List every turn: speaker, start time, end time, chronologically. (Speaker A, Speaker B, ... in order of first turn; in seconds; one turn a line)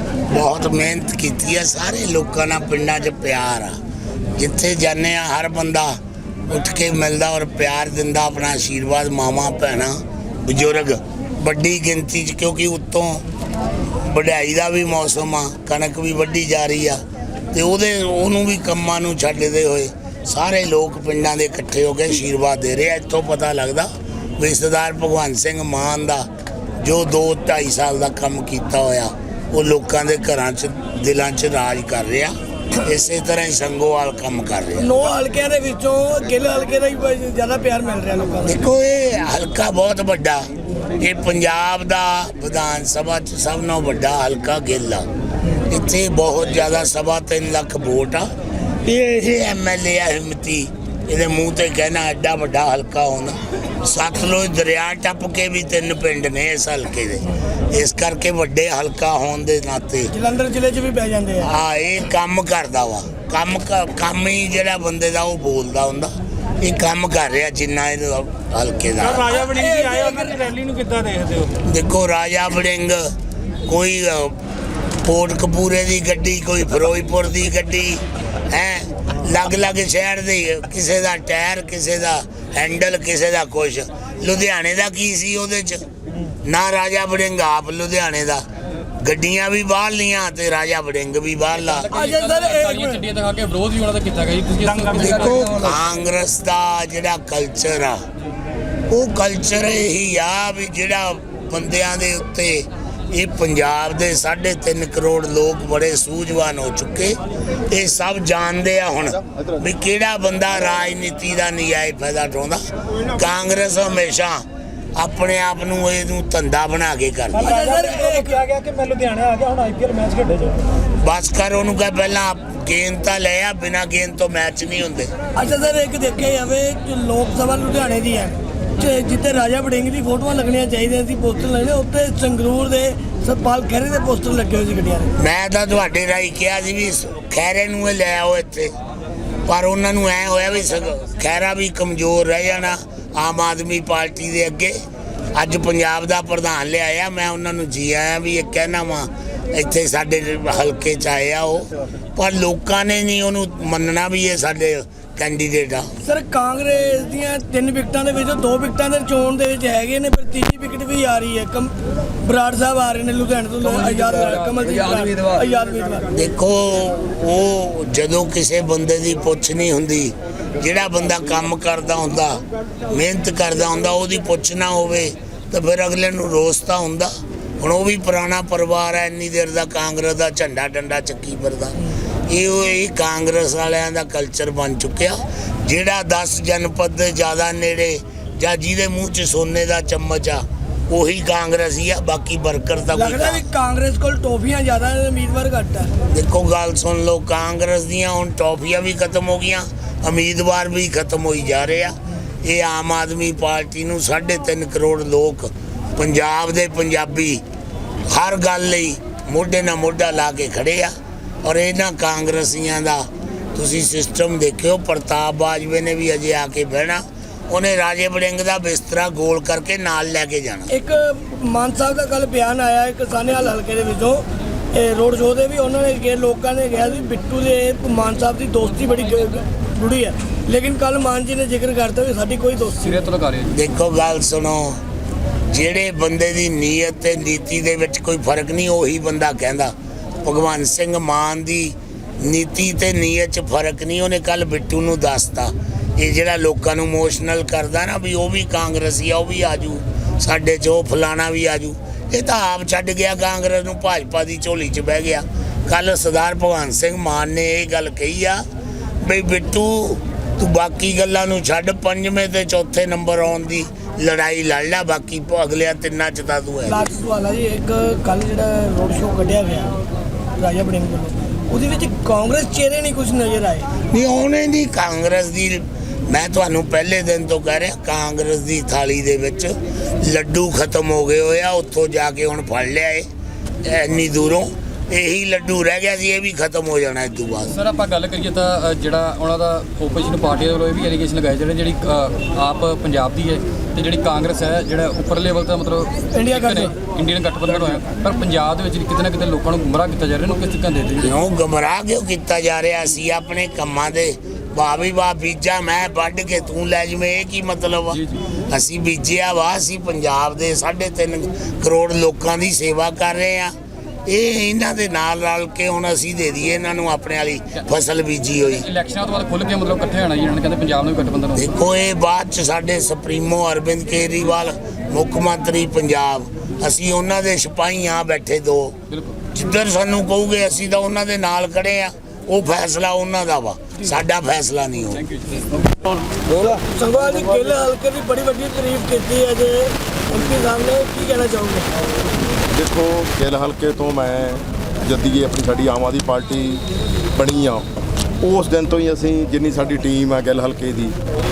Speaker A: 0.3-3.8
Speaker A: 4.3-13.2
Speaker A: 13.9-17.0
Speaker A: 17.5-26.3
Speaker A: 26.8-34.9
Speaker B: 34.8-38.6
Speaker A: 38.4-40.5
Speaker A: 41.0-45.0
Speaker A: 45.6-48.3
Speaker A: 48.8-60.1
Speaker B: 60.1-61.5
Speaker A: 61.4-69.3
Speaker C: 69.0-71.5
Speaker B: 69.2-70.5
Speaker A: 71.6-73.1
Speaker A: 73.7-74.3
Speaker A: 75.0-85.8
Speaker A: 86.4-88.4
Speaker A: 89.0-91.9
Speaker D: 91.6-95.7
Speaker B: 91.9-93.0
Speaker A: 95.0-98.0
Speaker A: 98.9-114.4
Speaker A: 115.0-117.5
Speaker B: 117.3-118.4
Speaker C: 117.3-120.7
Speaker A: 121.0-125.1
Speaker B: 125.3-135.1
Speaker A: 135.2-138.7
Speaker A: 139.4-144.8
Speaker A: 145.3-155.9
Speaker B: 156.0-166.1
Speaker D: 163.6-165.4
Speaker A: 166.1-181.8
Speaker A: 182.3-193.4
Speaker B: 192.9-195.9
Speaker A: 196.1-207.4
Speaker A: 208.1-210.9
Speaker A: 211.4-220.7
Speaker B: 220.7-233.1
Speaker D: 232.8-233.6
Speaker A: 233.5-234.8
Speaker A: 235.5-258.4
Speaker A: 259.0-266.9
Speaker B: 266.6-269.7
Speaker B: 270.4-273.7
Speaker A: 273.9-283.1
Speaker A: 283.6-287.6
Speaker D: 287.5-301.1
Speaker B: 296.1-296.7
Speaker A: 301.0-313.5
Speaker D: 307.9-308.2
Speaker A: 314.1-318.6
Speaker D: 318.6-321.5
Speaker A: 321.3-328.8
Speaker D: 328.9-329.2
Speaker A: 329.3-335.0
Speaker D: 335.0-335.4
Speaker B: 336.7-341.7
Speaker E: 342.5-347.7
Speaker E: 348.2-350.9